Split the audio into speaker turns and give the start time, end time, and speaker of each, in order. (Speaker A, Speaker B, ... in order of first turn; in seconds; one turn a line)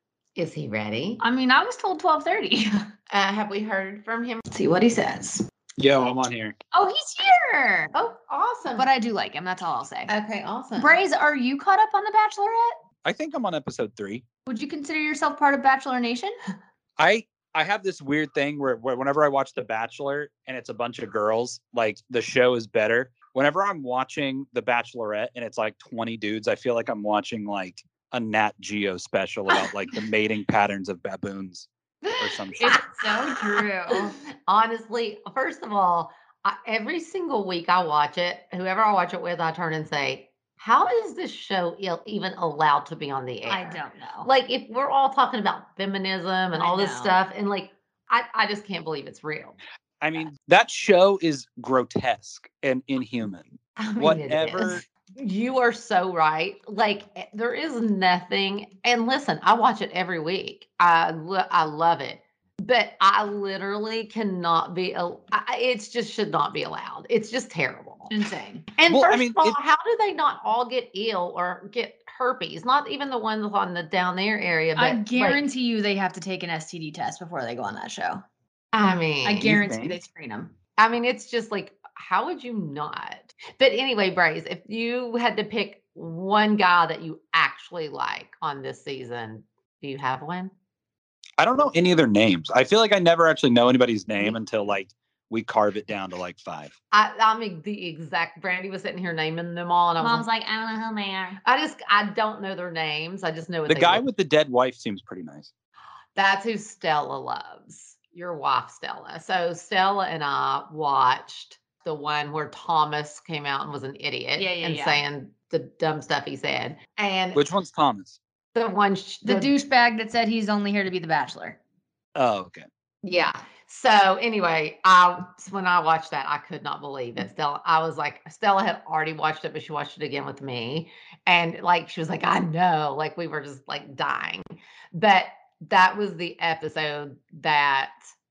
Speaker A: 0.4-1.2
Speaker B: 1.2-2.9
Speaker A: 3.1-4.4
Speaker B: 4.5-5.5
Speaker C: 5.8-6.5
Speaker B: 6.7-7.9
Speaker A: 7.9-8.9
Speaker B: 8.8-10.1
Speaker A: 10.1-11.0
Speaker B: 10.8-12.8
Speaker C: 13.1-14.2
Speaker B: 14.5-16.4
Speaker C: 17.0-32.7
Speaker B: 32.0-34.2
Speaker A: 32.6-49.6
Speaker B: 43.5-44.3
Speaker B: 46.6-47.2
Speaker C: 50.0-54.8
Speaker A: 53.8-68.1
Speaker B: 68.1-68.7
Speaker A: 68.8-75.5
Speaker C: 68.9-69.6
Speaker B: 74.8-78.2
Speaker A: 78.7-79.6
Speaker B: 79.2-80.5
Speaker C: 79.5-80.0
Speaker A: 80.8-90.5
Speaker C: 91.4-96.8
Speaker A: 96.9-100.3
Speaker B: 100.0-101.4
Speaker A: 101.4-104.0
Speaker C: 103.7-105.5
Speaker A: 106.2-117.5
Speaker B: 114.4-115.0
Speaker C: 117.3-118.2
Speaker A: 118.5-119.5
Speaker B: 119.2-121.6
Speaker C: 122.2-122.7
Speaker A: 123.0-137.9